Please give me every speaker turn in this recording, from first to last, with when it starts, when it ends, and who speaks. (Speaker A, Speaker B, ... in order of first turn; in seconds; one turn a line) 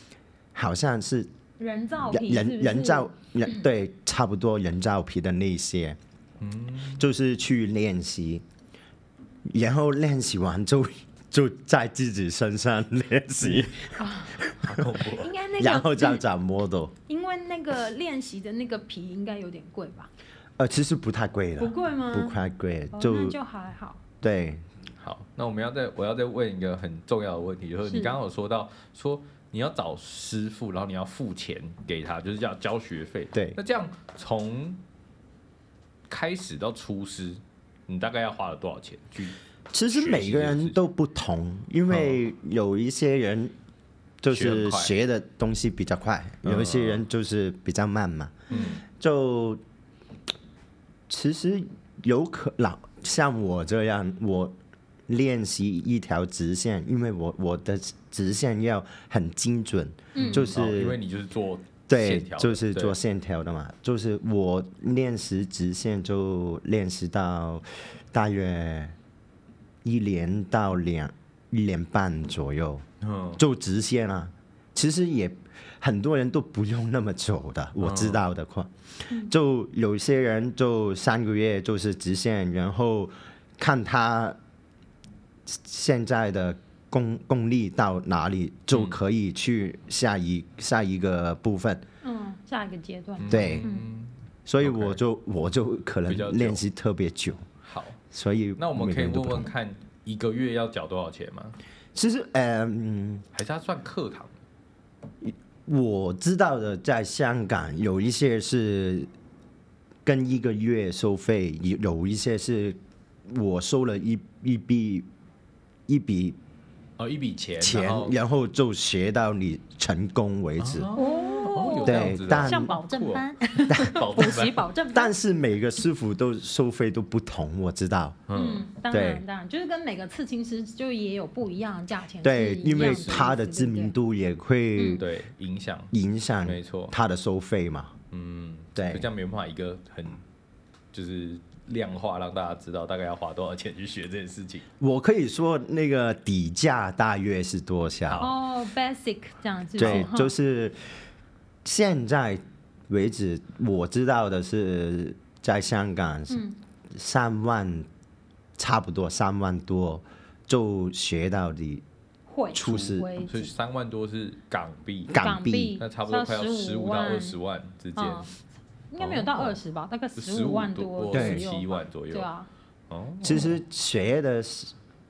Speaker A: 0.5-1.3
Speaker B: 1.6-3.6
Speaker A: 2.1-6.0
Speaker C: 6.4-7.0
Speaker A: 7.0-8.4
Speaker A: 9.4-14.8
Speaker B: 14.0-14.5
Speaker C: 14.6-15.3
Speaker B: 15.1-16.2
Speaker A: 15.6-16.9
Speaker B: 17.1-20.1
Speaker A: 20.6-23.4
Speaker B: 21.6-22.4
Speaker B: 22.9-24.0
Speaker A: 24.2-24.6
Speaker C: 25.0-34.8
Speaker B: 27.9-28.1
Speaker C: 36.1-39.4
Speaker A: 39.7-43.5
Speaker C: 39.9-40.8
Speaker C: 41.9-42.2
Speaker A: 44.2-49.6
Speaker C: 44.3-44.9
Speaker C: 46.4-47.0
Speaker B: 48.5-48.8
Speaker C: 48.5-48.8
Speaker A: 51.1-54.5
Speaker A: 55.1-61.0
Speaker B: 60.1-60.5
Speaker C: 60.1-63.0
Speaker A: 61.9-68.9
Speaker A: 69.8-72.8
Speaker C: 73.0-73.4
Speaker A: 73.3-84.4
Speaker C: 77.8-78.2
Speaker A: 85.5-91.8
Speaker C: 88.7-89.0
Speaker B: 92.0-93.9
Speaker C: 93.2-95.0
Speaker A: 93.3-93.6
Speaker A: 94.5-97.5
Speaker C: 96.1-96.6
Speaker C: 97.6-98.0
Speaker A: 98.1-99.5
Speaker C: 98.6-101.6
Speaker A: 101.9-103.2
Speaker C: 103.3-104.3
Speaker A: 105.2-109.1
Speaker A: 110.0-115.1
Speaker A: 115.9-116.4
Speaker C: 117.0-118.1
Speaker A: 117.6-120.9
Speaker C: 120.6-124.6
Speaker B: 120.9-125.1
Speaker A: 121.8-122.7
Speaker A: 123.7-124.0
Speaker A: 124.9-128.2
Speaker C: 128.3-128.7
Speaker B: 128.3-133.9
Speaker A: 128.9-129.2
Speaker A: 132.2-135.0
Speaker C: 132.7-133.3
Speaker B: 134.8-135.0
Speaker C: 134.9-135.9
Speaker A: 135.9-137.9
Speaker C: 136.4-136.9
Speaker C: 138.1-140.2
Speaker A: 138.8-139.1
Speaker C: 140.9-144.6
Speaker A: 144.8-148.2
Speaker C: 148.1-148.3
Speaker B: 148.2-150.3
Speaker A: 149.8-150.9
Speaker A: 151.6-157.9
Speaker B: 156.3-156.6
Speaker A: 158.6-161.8
Speaker B: 162.3-163.5
Speaker A: 162.5-163.1
Speaker C: 162.6-165.2
Speaker A: 165.1-165.8
Speaker B: 165.2-167.4
Speaker C: 165.8-168.3
Speaker B: 167.9-168.3
Speaker B: 168.9-172.5
Speaker C: 169.0-169.6
Speaker C: 170.2-172.3
Speaker A: 171.1-171.4
Speaker C: 172.9-173.6
Speaker A: 173.2-174.7